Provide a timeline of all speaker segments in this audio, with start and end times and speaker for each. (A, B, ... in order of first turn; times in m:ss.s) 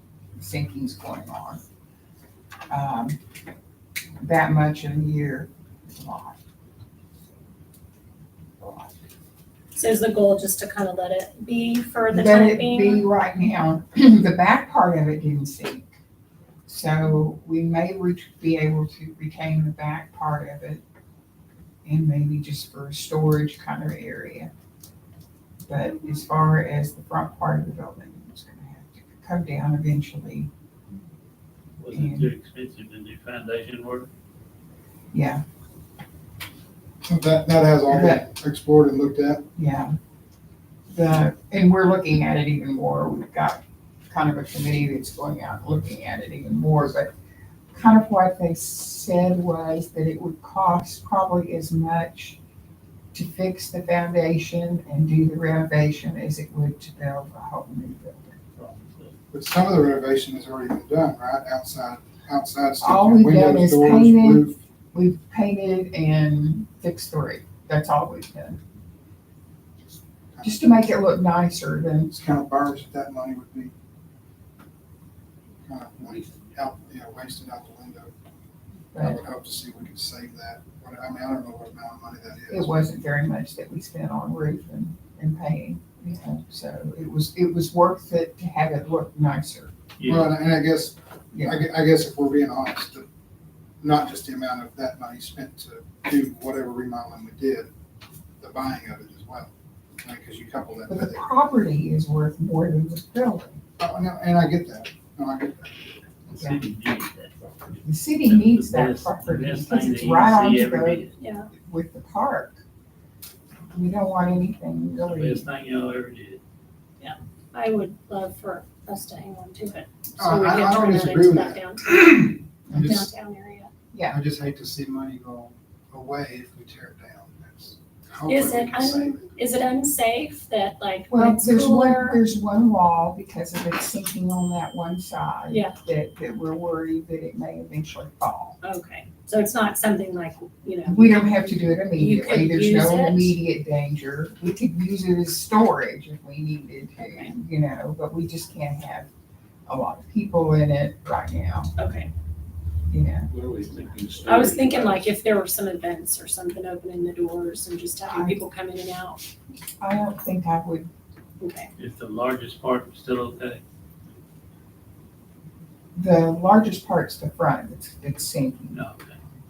0:00.4-0:01.6 A
0:02.7-0:03.2 A
0:04.2-0:06.4 A
0:08.6-0:08.9 A
0:09.7-0:13.0 B
0:12.1-0:15.9 A
0:16.7-0:20.8 A
0:21.8-0:24.5 A
0:25.7-0:30.5 A
0:31.8-0:34.1 C
0:31.9-0:32.3 A
0:35.1-0:35.4 A
0:37.0-0:39.5 D
0:37.9-0:38.2 A
0:39.6-0:40.0 A
0:40.9-0:47.1 A
0:47.7-0:52.4 A
0:53.1-0:58.4 A
0:58.6-0:59.2 C
0:59.3-1:04.6 D
1:02.8-1:08.6 A
1:10.3-1:10.7 D
1:10.4-1:12.2 A
1:12.1-1:13.7 D
1:15.6-1:18.1 D
1:18.9-1:19.2 A
1:19.0-1:22.8 D
1:22.5-1:29.7 A
1:30.0-1:30.3 C
1:30.0-1:33.0 D
1:31.3-1:31.6 A
1:33.8-1:37.7 D
1:38.4-1:41.2 D
1:40.9-1:43.6 A
1:43.8-1:46.0 D
1:46.3-1:51.1 C
1:46.4-1:46.6 A
1:47.8-1:51.0 A
1:51.2-1:51.5 B
1:51.6-1:52.6 A
1:53.7-1:55.4 A
1:55.0-1:56.4 C
1:57.0-2:03.7 B
2:00.2-2:03.1 D
2:02.7-2:03.0 A
2:04.1-2:09.4 D
2:08.3-2:12.2 B
2:11.1-2:18.6 A
2:18.6-2:23.3 B
2:20.8-2:29.1 A
2:27.0-2:27.3 B
2:29.7-2:31.7 A
2:31.8-2:32.1 B
2:32.9-2:33.3 A
2:33.3-2:35.0 C
2:34.2-2:39.2 B
2:38.0-2:38.4 A
2:39.8-2:40.9 A
2:41.4-2:41.7 B
2:41.8-2:43.6 C
2:46.0-2:48.8 A
2:48.7-2:49.1 C